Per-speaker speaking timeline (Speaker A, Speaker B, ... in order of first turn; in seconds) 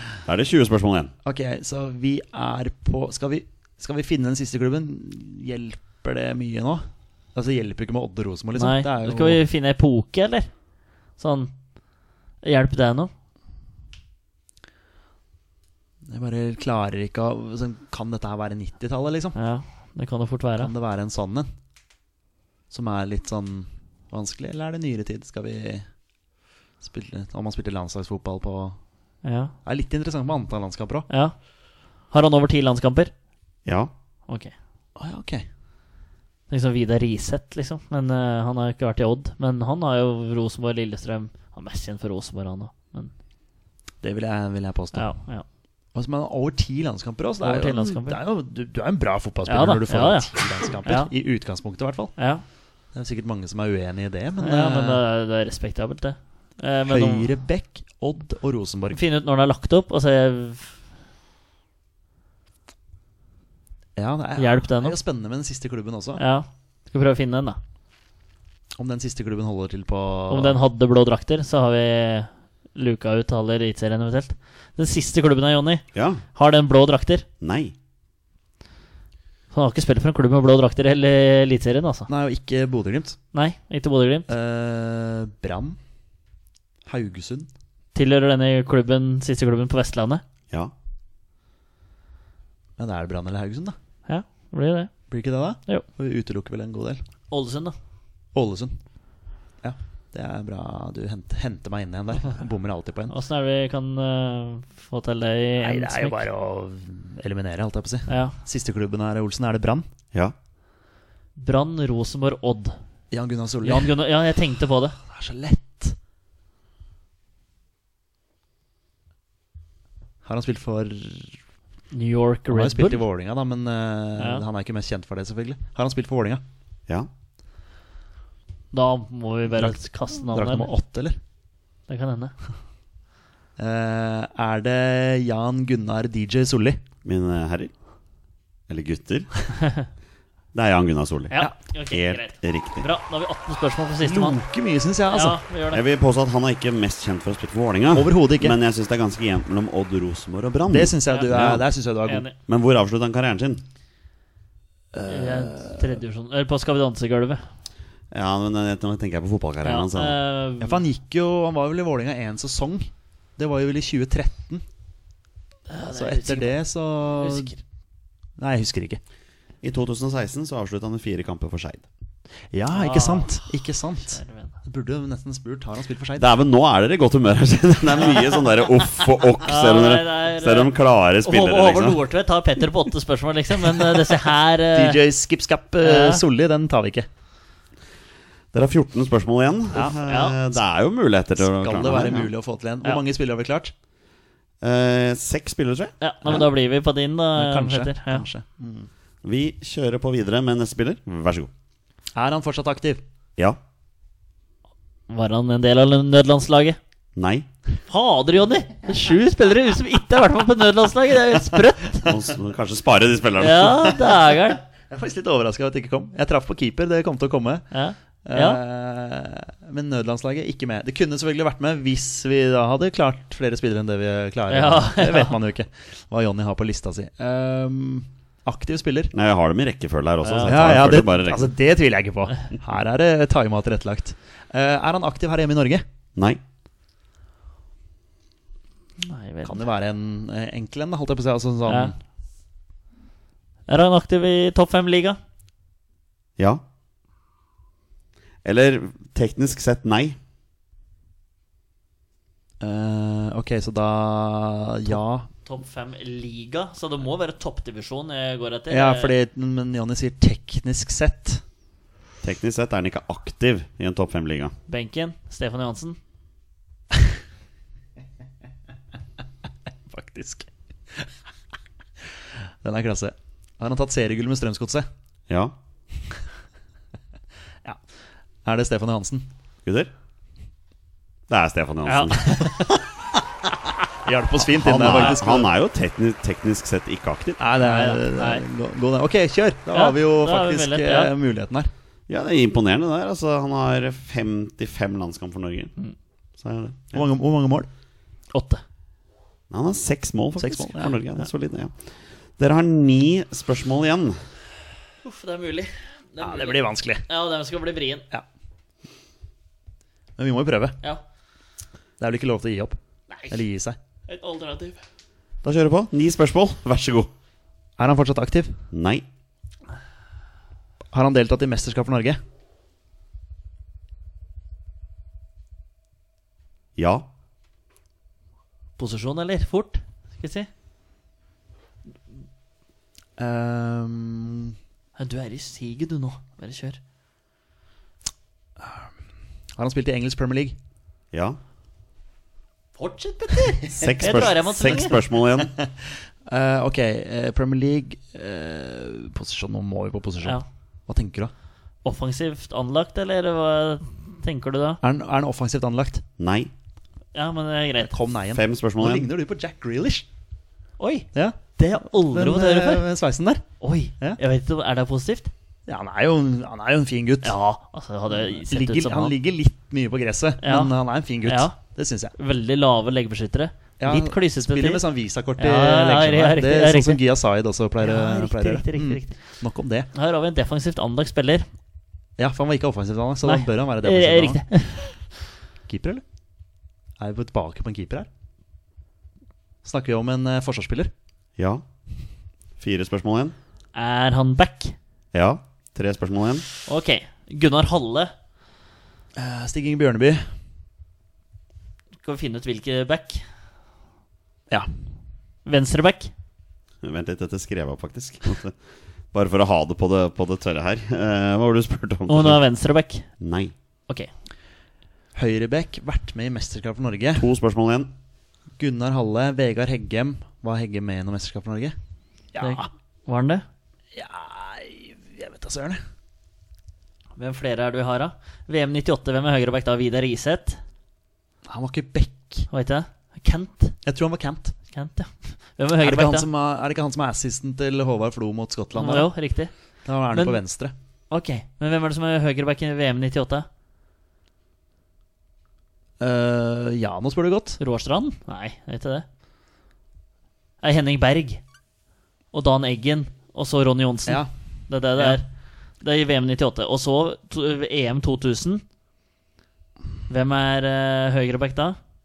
Speaker A: 0.3-1.1, 33.6-33.9, 76.0-76.2, 77.4-77.7, 137.0-137.7, 138.7-139.3, 140.5-141.4, 141.9-142.9, 145.7-151.7, 152.5-153.6, 158.1-160.2, 169.6-171.9, 176.2-182.0, 188.5-192.3, 194.6-196.4, 199.2-201.5, 207.2-207.5, 212.1-214.0, 229.1-231.5, 248.4-250.2, 262.2-264.5, 275.3-275.6, 279.6-279.9, 281.3-282.8, 284.5-287.4, 292.1-295.7, 296.4-297.0, 299.5-301.8, 302.4-304.2, 315.4-317.1, 318.7-319.1, 326.8-327.1, 341.1-341.4, 343.8-345.5, 356.2-356.5, 358.3-359.1, 391.4-391.6, 392.6-393.4, 395.1-396.5, 406.8-408.6, 409.1-412.4, 413.2-413.5, 417.2-417.9
Speaker B: 1.2-9.4, 16.1-19.4, 20.6-21.5, 22.7-25.9, 26.8-28.8, 29.6-31.1, 35.0-35.5, 44.0-45.1, 45.9-52.2, 52.9-55.0, 56.9-59.0, 64.0-66.2, 68.8-70.6, 82.1-83.2, 84.3-85.8, 86.9-87.5, 92.8-93.8, 95.1-97.0, 98.3-98.8, 99.6-103.2, 105.6-109.9, 113.1-114.0, 115.0-116.0, 120.2-121.4, 122.5-126.4, 129.5-129.8, 130.3-131.2, 133.6-136.8, 144.0-145.4, 147.9-148.6, 150.7-152.2, 154.9-156.0, 160.6-164.6, 165.9-167.5, 168.4-169.0, 172.5-176.3, 184.7-187.1, 189.7-190.0, 191.4-193.7, 197.3-198.9, 202.2-203.0, 214.9-217.7, 218.3-229.1, 230.5-235.8, 239.4-241.9, 252.6-255.3, 258.7-261.4, 269.9-271.1, 272.6-274.9, 278.4-279.3, 284.0-285.5, 287.4-291.7, 296.9-297.7, 300.4-300.9, 306.2-307.1, 310.2-310.8, 312.0-312.8, 313.3-313.8, 317.8-318.6, 320.9-322.2, 333.2-334.6, 338.6-338.9, 339.6-340.6, 343.3-351.3, 354.8-356.0, 357.8-360.1, 361.1-363.4, 365.7-367.3, 368.1-372.1, 373.8-379.9, 382.2-384.4, 385.7-386.0, 387.0-388.1, 389.6-390.9, 399.2-400.2, 415.1-417.3, 418.6-421.8, 422.3-422.7, 423.9-425.8, 431.5-432.5, 433.9-434.6, 435.8-439.1, 439.9-440.7, 446.0-447.6, 455.0-455.2
Speaker C: 8.6-10.6, 11.2-11.5, 12.4-13.1, 19.4-20.7, 29.2-29.5, 31.1-31.4, 32.1-33.1, 36.5-43.1, 44.9-45.5, 47.4-48.2, 49.5-51.1, 52.2-52.4, 54.4-57.3, 58.9-60.8, 64.4-65.0, 66.2-67.6, 70.3-77.3, 79.5-82.1, 83.3-84.3, 88.0-90.2, 94.1-94.9, 97.3-97.8, 103.1-106.3, 108.1-108.3, 111.4-112.8, 113.6-115.0, 121.9-123.0, 124.2-124.5, 128.7-130.7, 131.9-132.3, 141.3-144.4, 145.1-145.8, 151.1-152.4, 155.1-157.5, 159.6-160.8, 165.7-166.6, 167.2-167.6, 172.7-174.6, 179.4-185.0, 185.8-186.2, 190.0-190.4, 196.0-198.3, 205.1-206.8, 207.9-212.1, 213.4-214.6, 217.7-218.6, 224.5-225.3, 230.2-230.6, 239.0-239.6, 241.7-241.9, 243.7-245.2, 254.9-259.1, 264.7-266.0, 281.9-282.7, 284.9-285.2, 287.6-288.4, 289.7-291.1, 298.3-298.6, 305.0-308.1, 314.1-314.8, 328.8-330.5, 335.0-336.8, 342.8-345.0, 351.8-354.8, 357.1-357.9, 360.8-362.9, 363.6-365.3, 367.2-369.1, 370.4-371.6, 372.2-374.9, 375.4-377.0, 377.8-379.2, 379.9-381.5, 383.2-385.1, 393.8-394.8, 396.6-398.1, 402.0-403.2, 405.5-406.1, 412.1-413.1, 422.4-423.4, 427.2-430.6, 432.5-433.8, 434.7-436.3, 438.8-440.4, 441.1-443.5, 447.6-449.1, 450.6-451.4, 452.3-455.2, 455.8-458.6, 460.1-461.8